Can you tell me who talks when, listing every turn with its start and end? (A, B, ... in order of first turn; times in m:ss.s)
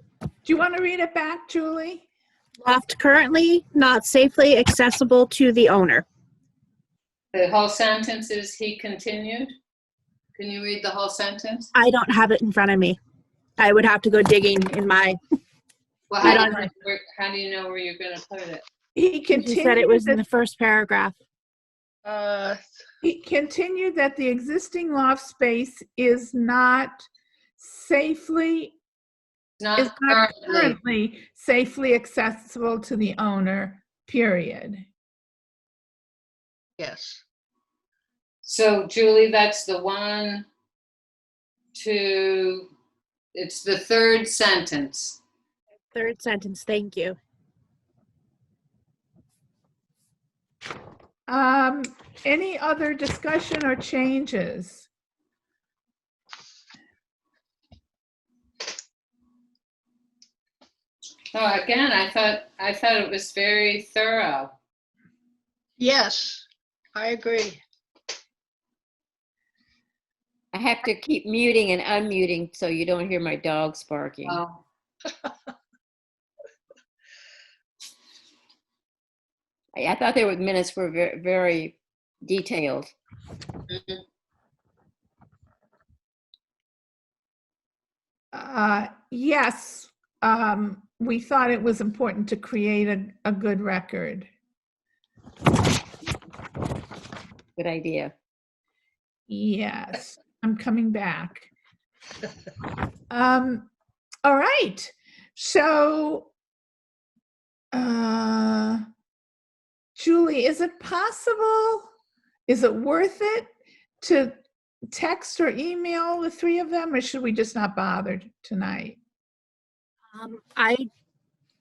0:00.4-0:02.0 A
0:02.6-0:06.0 B
0:07.3-0:09.5 C
0:10.4-0:11.7 C
0:11.7-0:13.0 B
0:13.6-0:15.2 B
0:16.1-0:18.6 C
0:16.2-0:16.7 B
0:19.0-0:20.2 A
0:19.3-0:21.2 B
0:22.0-0:22.6 D
0:23.0-0:27.0 A
0:27.6-0:28.8 A
0:29.6-0:30.8 C
0:29.8-0:34.9 A
0:36.8-0:37.2 D
0:38.4-0:40.5 C
0:41.8-0:42.7 C
0:43.3-0:45.2 C
0:45.9-0:47.2 B
0:51.3-0:54.9 A
1:01.3-1:04.5 C
1:05.8-1:07.6 D
1:10.5-1:14.4 E
1:14.3-1:14.6 C
1:19.8-1:22.9 E
1:23.7-1:24.0 C
1:28.3-1:34.3 A
1:37.6-1:38.1 E
1:39.3-1:41.5 A
1:43.1-1:43.7 A
1:44.2-1:46.3 A
1:47.7-1:48.8 A
1:50.0-1:51.9 A
1:52.5-1:53.5 A
1:54.0-1:54.4 A
1:54.9-1:59.0 A
2:00.1-2:00.9 B